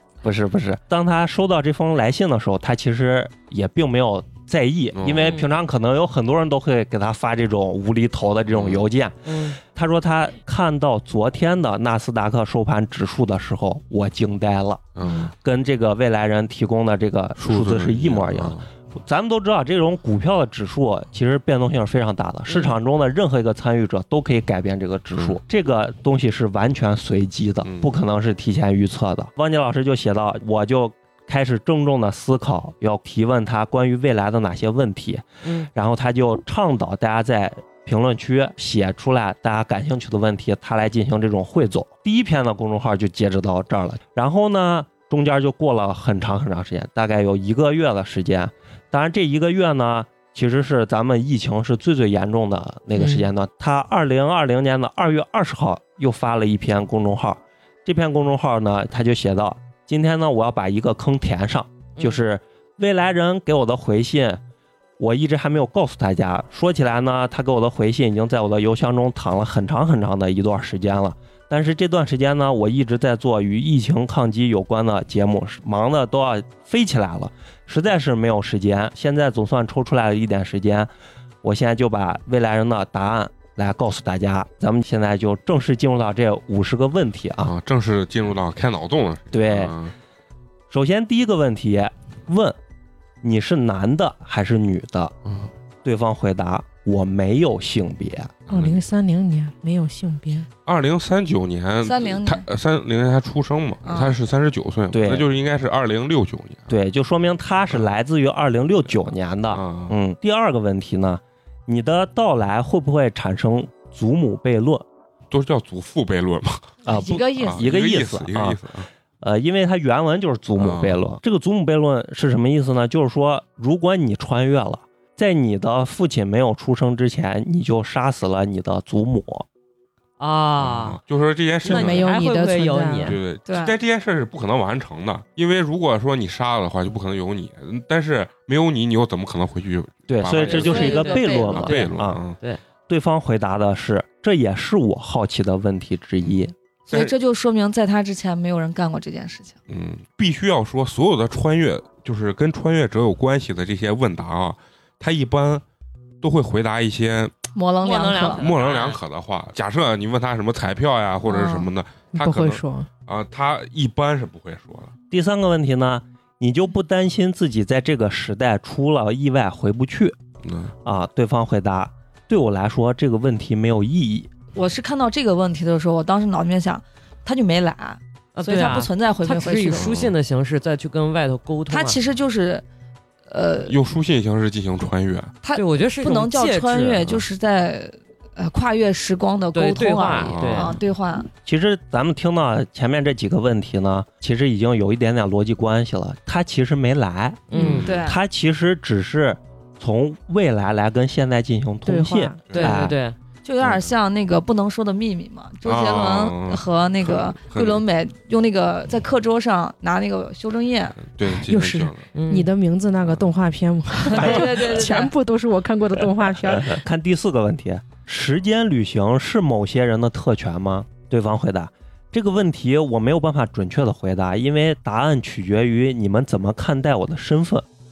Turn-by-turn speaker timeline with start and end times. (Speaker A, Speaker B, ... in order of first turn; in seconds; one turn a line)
Speaker A: 0.2-64.4
Speaker B: 5.0-5.2
Speaker C: 5.2-5.5
Speaker B: 8.5-8.8
Speaker C: 9.3-9.6
Speaker B: 15.0-15.3
Speaker B: 17.4-18.7
Speaker B: 27.6-27.9
Speaker C: 35.4-35.7
Speaker D: 53.0-53.3
Speaker A: 65.0-80.9
Speaker A: 81.4-87.5
Speaker B: 87.4-89.9
Speaker A: 89.3-89.7
Speaker A: 90.7-92.6
Speaker A: 93.2-95.1
Speaker A: 95.8-98.4
Speaker B: 98.5-98.8
Speaker D: 98.5-100.5
Speaker B: 100.7-106.7
Speaker E: 101.8-102.4
Speaker E: 103.9-104.1
Speaker A: 104.9-105.3
Speaker A: 106.7-114.9
Speaker B: 109.5-110.0
Speaker B: 115.3-116.8
Speaker A: 116.8-118.6
Speaker E: 116.9-117.7
Speaker B: 117.4-118.9
Speaker A: 119.2-129.5
Speaker B: 120.6-121.0
Speaker C: 130.2-131.0
Speaker B: 130.6-132.1
Speaker D: 131.7-133.2
Speaker C: 131.7-133.2
Speaker B: 133.1-142.4
Speaker E: 133.5-133.8
Speaker A: 140.1-142.2
Speaker C: 140.4-142.6
Speaker E: 140.5-141.7
Speaker A: 142.9-146.5
Speaker E: 146.9-149.6
Speaker B: 146.9-147.2
Speaker B: 149.7-155.6
Speaker B: 156.2-157.3
Speaker E: 157.5-158.4
Speaker C: 157.8-159.0
Speaker B: 158.2-164.9
Speaker E: 161.2-161.7
Speaker D: 162.1-162.9
Speaker A: 165.1-170.2
Speaker B: 170.4-170.7
Speaker A: 170.8-174.3
Speaker E: 174.5-179.9
Speaker C: 178.3-182.0
Speaker B: 179.8-180.1
Speaker E: 181.7-182.7
Speaker E: 183.3-183.8
Speaker B: 183.7-185.4
Speaker E: 185.4-191.3
Speaker C: 185.6-187.1
Speaker C: 189.5-190.8
Speaker B: 190.1-190.8
Speaker A: 190.4-190.7
Speaker A: 191.4-203.0
Speaker C: 197.5-197.9
Speaker B: 197.5-198.1
Speaker E: 197.8-198.2
Speaker D: 201.9-202.4
Speaker B: 202.5-202.8
Speaker C: 202.5-203.2
Speaker E: 203.4-211.0
Speaker B: 203.6-203.9
Speaker B: 205.6-207.8
Speaker B: 211.0-212.1
Speaker D: 211.3-216.8
Speaker C: 212.1-212.5
Speaker E: 214.1-215.1
Speaker A: 216.5-227.7